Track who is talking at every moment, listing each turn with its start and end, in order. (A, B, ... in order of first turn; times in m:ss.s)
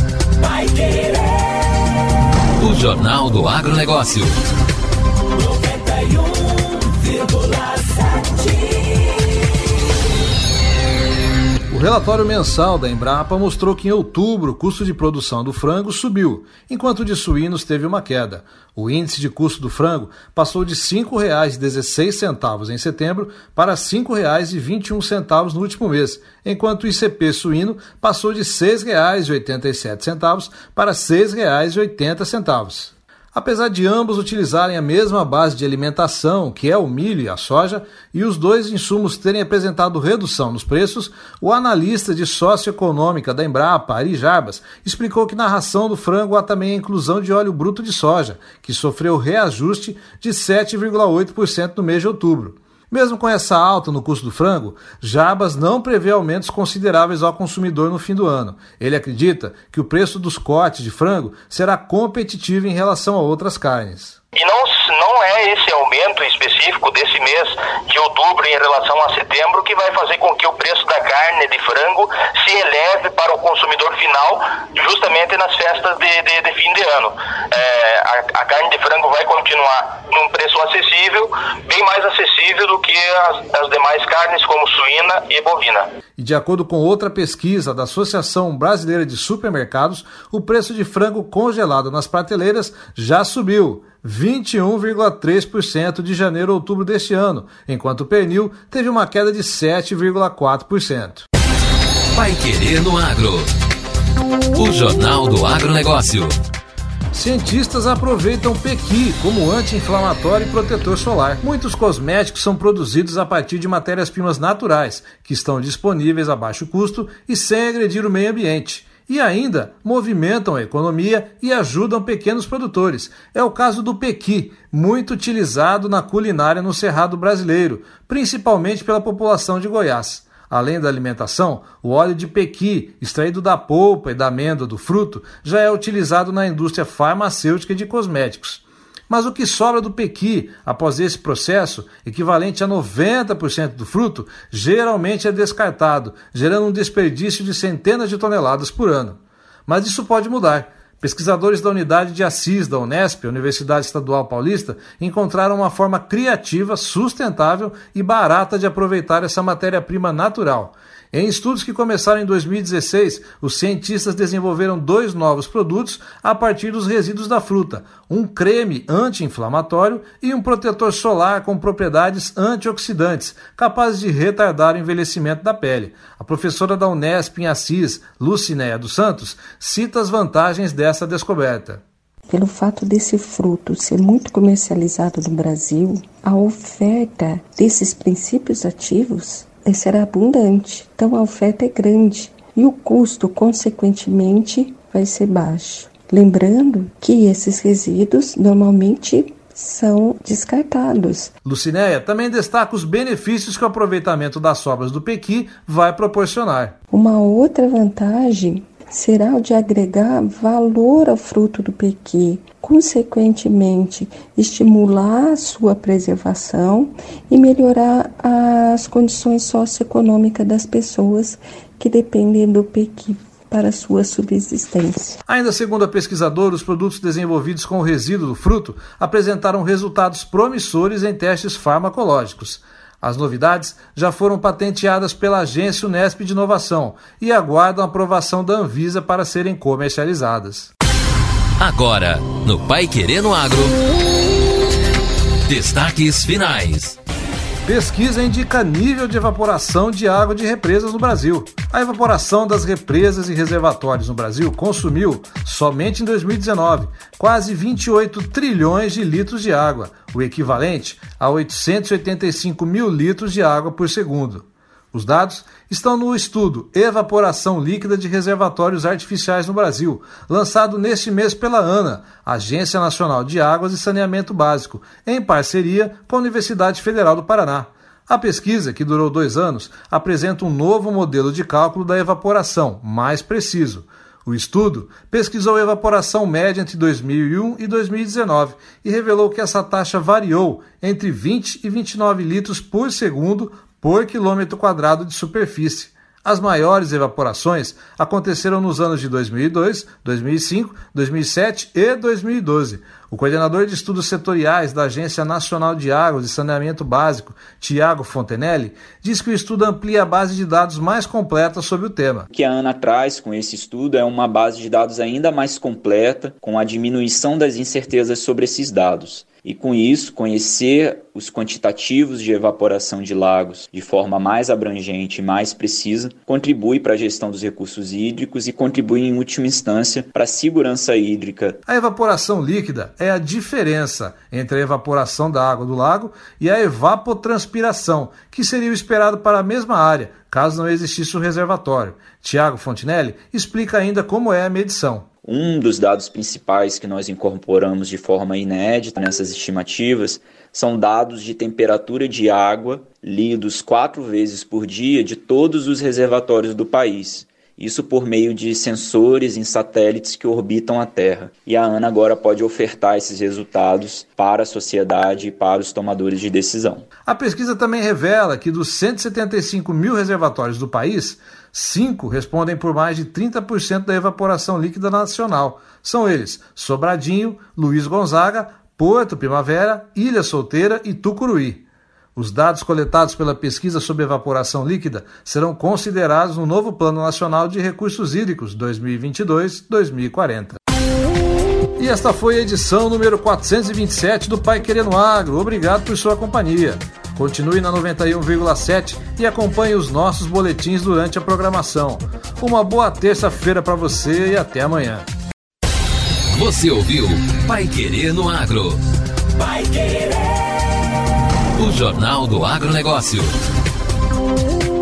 0:02.6-0:04.4 A
0:11.7-1:04.2 B
1:04.4-1:25.8 C
1:26.2-1:41.3 B
1:42.1-1:43.5 A
1:44.5-1:46.3 A
1:47.1-3:01.8 B
3:02.3-3:21.3 D
3:21.4-3:26.7 B
3:26.9-3:45.2 D
3:45.3-4:00.7 B
4:01.6-4:03.7 A
4:05.5-4:07.0 A
4:07.6-5:12.3 B
5:12.3-5:31.6 E
5:31.6-5:45.0 B
5:45.2-6:06.8 E
6:07.0-6:21.6 B
6:22.2-6:30.6 B
6:31.8-6:45.1 B
6:46.3-6:48.8 A
6:49.8-6:50.1 A
6:51.5-6:53.3 A